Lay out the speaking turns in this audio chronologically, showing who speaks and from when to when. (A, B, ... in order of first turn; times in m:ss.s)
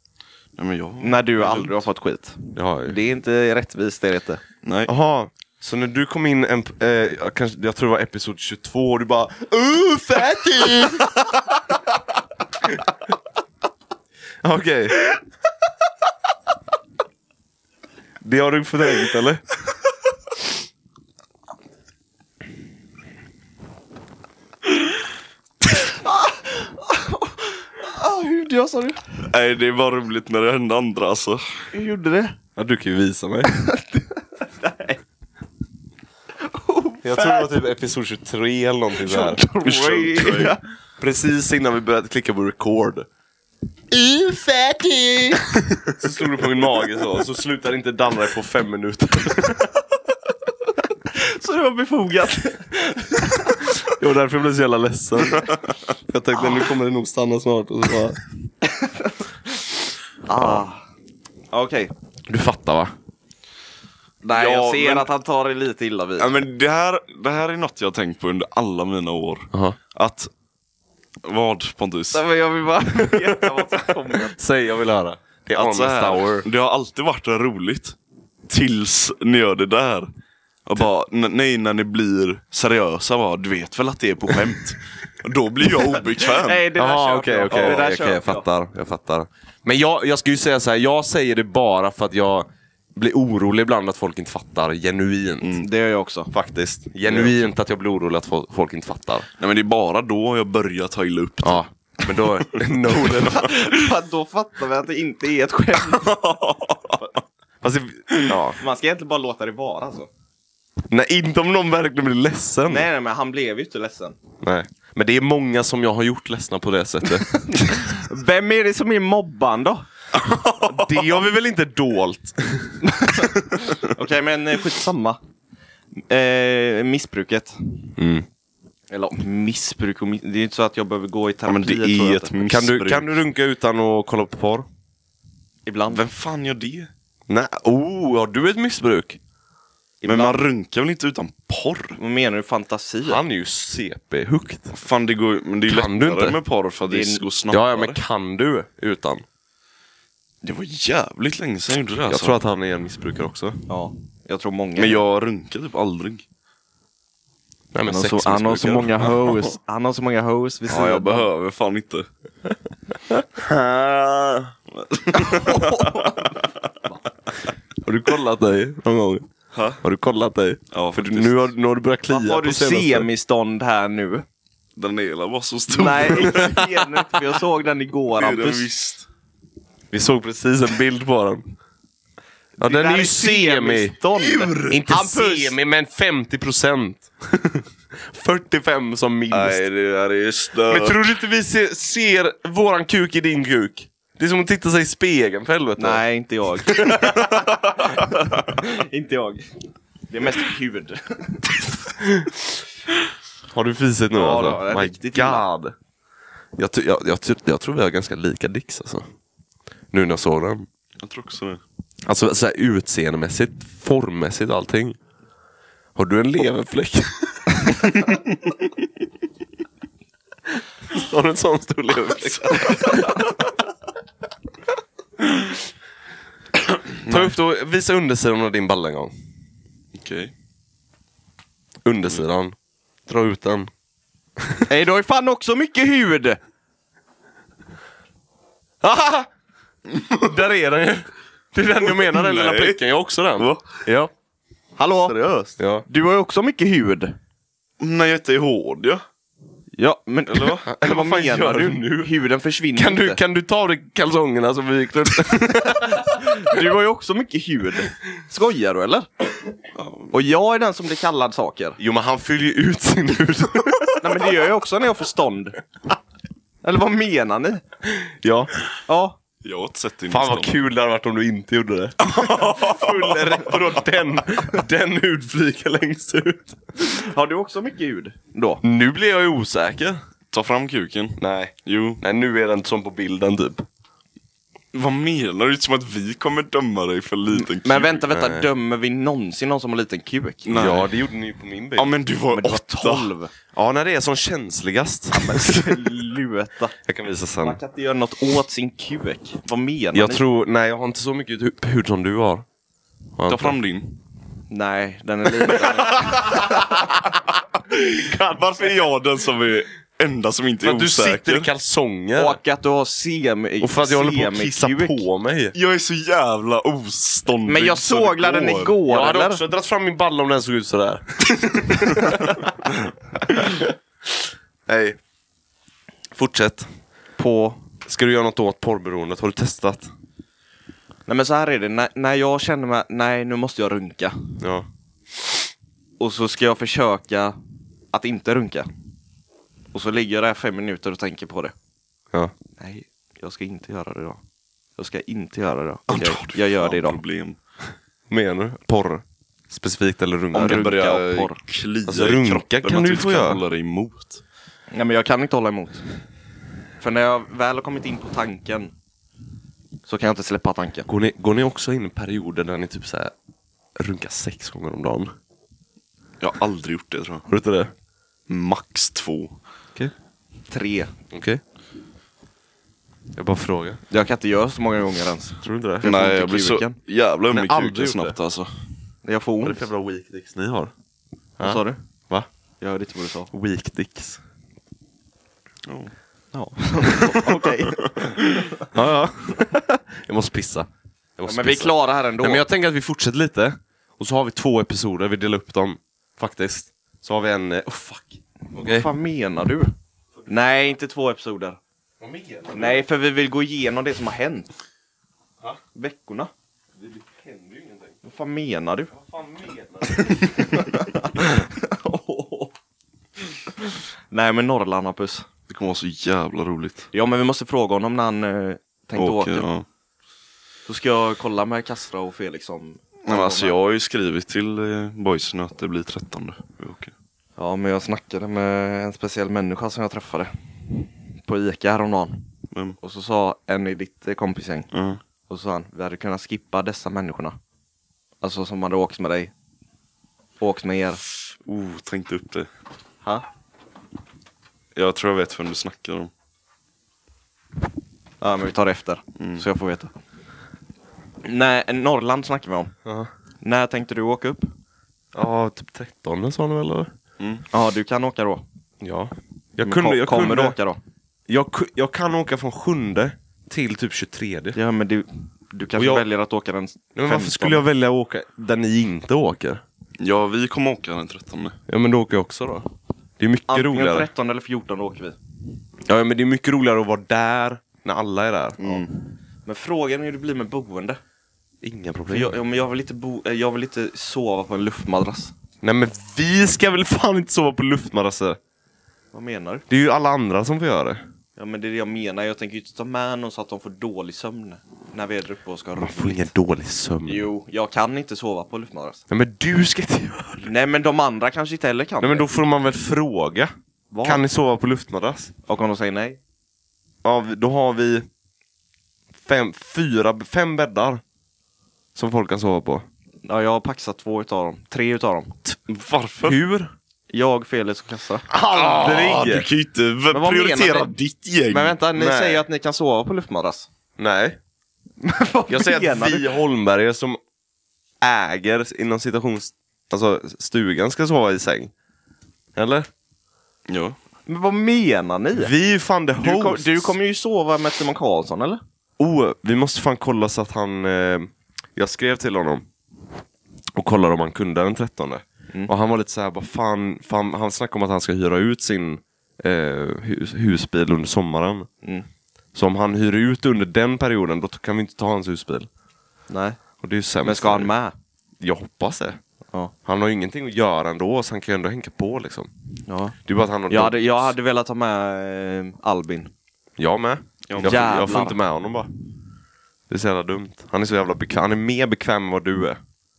0:00.6-0:01.8 A
0:01.0-0:04.4 B
0:02.6-0:03.0 C
0:04.6-0:04.9 A
0:04.9-0:11.2 C
0:14.4-0:15.1 C
0:18.2-0:19.4 C
0:25.7-0:29.2 B
0:29.3-0:31.7 A
0:31.7-0:32.4 B
0:32.6-0:33.5 C
0:33.5-0:35.0 B
0:36.4-0:37.6 B
0:37.0-0:39.4 C
0:39.0-0:40.6 B
0:39.6-0:40.6 A
0:41.0-0:43.1 C
0:44.0-0:45.4 C
0:45.9-0:49.7 C
0:51.1-0:53.8 B
0:53.8-0:58.2 C
0:58.8-0:59.1 B
1:00.3-1:00.8 B
1:00.4-1:00.6 C
1:01.5-1:01.9 B
1:02.3-1:02.9 C
1:04.2-1:06.3 B
1:04.3-1:05.1 A
1:06.2-1:10.3 A
1:09.5-1:09.8 C
1:11.2-1:12.2 A
1:12.1-1:14.4 B
1:14.2-1:16.5 C
1:15.5-1:18.0 A
1:18.5-1:20.1 A
1:20.6-1:26.6 A
1:26.2-1:28.5 B
1:26.8-1:35.6 C
1:27.5-1:27.9 A
1:35.4-1:35.7 A
1:35.6-1:36.3 B
1:36.3-1:39.3 C
1:39.4-1:41.6 A
1:41.4-1:43.6 C
1:42.2-1:42.6 A
1:43.3-1:46.2 B
1:45.9-1:47.0 A
1:47.6-1:48.6 C
1:48.6-1:50.1 B
1:50.9-1:52.9 C
1:52.7-1:54.2 B
1:54.4-1:57.4 C
1:57.3-1:59.9 B
2:00.3-2:00.8 A
2:00.5-2:03.3 C
2:02.8-2:05.2 B
2:06.1-2:07.6 B
2:08.0-2:08.3 C
2:08.9-2:12.3 B
2:11.4-2:13.2 A
2:12.5-2:14.7 C
2:15.7-2:16.0 B
2:15.9-2:16.9 A
2:17.3-2:19.2 C
2:20.0-2:20.4 B
2:20.0-2:22.0 A
2:22.0-2:23.2 B
2:23.0-2:24.7 C
2:24.7-2:28.0 A
2:25.7-2:26.4 C
2:26.9-2:27.2 B
2:27.5-2:29.2 C
2:30.4-2:32.4 A
2:32.1-2:33.6 C
2:33.7-2:35.0 B
2:34.8-2:36.2 A
2:37.7-2:39.3 C
2:37.9-2:41.3 B
2:40.7-2:42.1 A
2:43.4-2:46.7 A
2:45.2-2:46.4 B
2:47.8-2:49.3 C
2:49.5-2:49.8 A
2:49.8-2:53.1 C
2:50.7-2:51.5 A
2:52.1-2:54.2 B
2:54.8-2:56.9 A
2:55.7-2:58.7 B
2:58.2-2:59.1 A
2:59.9-3:01.5 C
3:02.6-3:04.0 C
3:02.6-3:05.6 B
3:04.2-3:04.8 A
3:04.7-3:09.6 C
3:09.3-3:11.0 A
3:10.7-3:16.0 C
3:15.8-3:19.5 B
3:16.7-3:17.8 C
3:20.1-3:21.6 B
3:22.0-3:22.3 C
3:23.5-3:25.7 C
3:24.1-3:25.4 B
3:26.6-3:29.0 C
3:29.9-3:30.7 C
3:31.0-3:31.6 A
3:32.1-3:35.0 C
3:36.0-3:37.9 C
3:40.9-3:43.3 C
3:47.0-3:49.1 C
3:50.0-3:50.3 A
3:51.8-3:52.6 C
3:53.1-3:53.7 C
3:54.4-3:54.7 C
3:54.7-3:56.4 B
3:58.8-3:59.3 C
3:59.9-4:04.1 C
4:01.9-4:02.8 A
4:03.4-4:03.8 A
4:04.8-4:07.2 B
4:05.6-4:05.9 C
4:07.8-4:09.0 A
4:09.8-4:13.2 B
4:10.6-4:12.1 C
4:12.8-4:16.6 C
4:15.9-4:19.1 B
4:19.8-4:20.1 A
4:20.1-4:21.8 B
4:21.8-4:24.2 C
4:24.0-4:25.6 B
4:26.6-4:27.6 B
4:28.0-4:28.5 C
4:28.9-4:29.2 B
4:29.4-4:30.5 A
4:30.1-4:36.6 C
4:32.0-4:33.3 A
4:36.8-4:38.6 B
4:38.6-4:40.0 C
4:40.3-4:42.0 A
4:41.2-4:43.6 C
4:44.7-4:48.0 A
4:47.3-4:50.5 B
4:48.1-4:48.5 C
4:50.4-4:50.9 A
4:50.5-4:52.0 C
4:51.8-4:53.1 A
4:52.3-4:53.3 B
4:53.5-4:55.9 C
4:55.2-4:56.8 B
4:56.8-4:57.6 C
4:57.4-5:00.2 B
4:59.9-5:02.5 C
5:03.2-5:03.6 C
5:03.3-5:04.0 A
5:04.5-5:06.7 B
5:06.0-5:06.8 C
5:07.7-5:11.5 A
5:08.0-5:08.4 C
5:10.6-5:12.4 C
5:12.2-5:15.1 B
5:13.6-5:15.6 C
5:15.5-5:18.8 A
5:17.5-5:19.4 B
5:18.9-5:22.6 C
5:23.2-5:23.7 C
5:24.7-5:25.0 C
5:26.2-5:26.7 C
5:27.2-5:27.6 B
5:27.8-5:29.9 C
5:31.1-5:34.4 B
5:34.4-5:34.7 C
5:36.0-5:37.4 B
5:37.9-5:38.7 B
5:39.7-5:41.5 B
5:42.6-5:44.2 B
5:44.8-5:47.0 B
5:45.9-5:47.4 A
5:48.1-5:50.6 C
5:50.3-5:54.2 A
5:50.3-5:51.4 B
5:51.9-5:53.4 C
5:54.7-5:55.8 B
5:56.8-5:58.7 B
5:59.9-6:00.9 B
6:00.9-6:03.1 C
6:03.8-6:05.1 C
6:06.2-6:07.2 A
6:07.3-6:07.7 C
6:08.3-6:09.4 A
6:10.5-6:10.9 B
6:11.1-6:11.4 C
6:13.2-6:13.8 C
6:13.9-6:16.8 B
6:15.4-6:15.9 C
6:15.8-6:18.5 A
6:17.3-6:18.2 C
6:19.0-6:19.6 B
6:19.4-6:20.7 C
6:21.4-6:22.3 C
6:21.4-6:21.8 B
6:22.6-6:23.3 B
6:23.3-6:24.2 C
6:25.7-6:25.9 A
6:26.3-6:28.2 B
6:28.7-6:38.9 C
6:31.3-6:32.4 B
6:38.6-6:39.7 B
6:40.3-6:41.6 B
6:42.0-6:42.8 C
6:42.5-6:44.5 B
6:45.8-6:46.3 B
6:46.8-6:48.0 C
6:48.0-6:48.9 B
6:48.9-6:50.6 C
6:50.4-6:52.5 B
6:53.6-6:55.3 B
6:55.5-6:56.9 A
6:56.9-6:59.5 B
6:59.0-6:59.7 A
7:00.7-7:03.6 B
7:03.1-7:06.9 A
7:07.4-7:10.3 B
7:11.2-7:12.2 B
7:12.5-7:12.8 A
7:12.8-7:14.7 B
7:14.7-7:15.0 A
7:15.3-7:17.4 B
7:18.2-7:19.3 B
7:20.4-7:21.0 B
7:21.4-7:22.5 A
7:24.8-7:26.1 A
7:28.2-7:30.0 B
7:29.2-7:29.5 A
7:31.2-7:32.7 B
7:32.8-7:33.1 C
7:33.4-7:34.5 B
7:35.2-7:36.9 C
7:37.2-7:37.4 A
7:37.5-7:38.4 B
7:38.8-7:40.6 C
7:39.6-7:40.8 B
7:41.3-7:44.6 C
7:44.6-7:47.6 B
7:45.8-7:46.0 C
7:47.0-7:49.6 C
7:50.0-7:51.6 A
7:51.7-7:52.7 C
7:53.2-7:54.1 C
7:53.5-7:55.2 B
7:55.9-7:58.8 C
7:58.6-7:58.9 A
7:59.5-8:01.0 B
8:01.6-8:02.4 C
8:02.1-8:05.3 B
8:05.6-8:08.4 C
8:09.1-8:09.6 B
8:09.7-8:11.0 C
8:11.4-8:16.3 B
8:15.8-8:17.2 C
8:17.1-8:19.0 B
8:19.1-8:20.5 C
8:20.4-8:22.3 B
8:22.0-8:25.3 C
8:23.9-8:24.2 B
8:25.5-8:26.2 B
8:27.0-8:28.1 C
8:29.2-8:31.0 C
8:32.0-8:32.8 C
8:33.2-8:35.4 B
8:35.7-8:36.4 A
8:36.2-8:36.7 C
8:37.1-8:38.3 B
8:38.3-8:39.5 C
8:38.5-8:41.8 A
8:40.1-8:40.9 B
8:41.5-8:43.7 B
8:42.0-8:42.4 C
8:44.0-8:44.4 C
8:45.0-8:46.4 B
8:45.5-8:47.2 C
8:48.0-8:51.7 C
8:52.6-8:52.9 C
8:53.7-8:54.0 A
8:54.3-8:55.5 B
8:55.4-8:57.0 C
8:56.2-8:58.6 B
8:59.0-9:02.7 C
9:03.8-9:11.7 C
9:12.5-9:15.7 C
9:16.3-9:16.6 B
9:16.8-9:17.7 C
9:17.2-9:17.9 B
9:18.4-9:19.2 C
9:19.8-9:22.5 C
9:22.9-9:23.2 B
9:23.3-9:24.3 C
9:23.7-9:26.3 B
9:26.8-9:28.9 C
9:27.5-9:28.1 A
9:27.6-9:28.4 B
9:29.9-9:32.8 C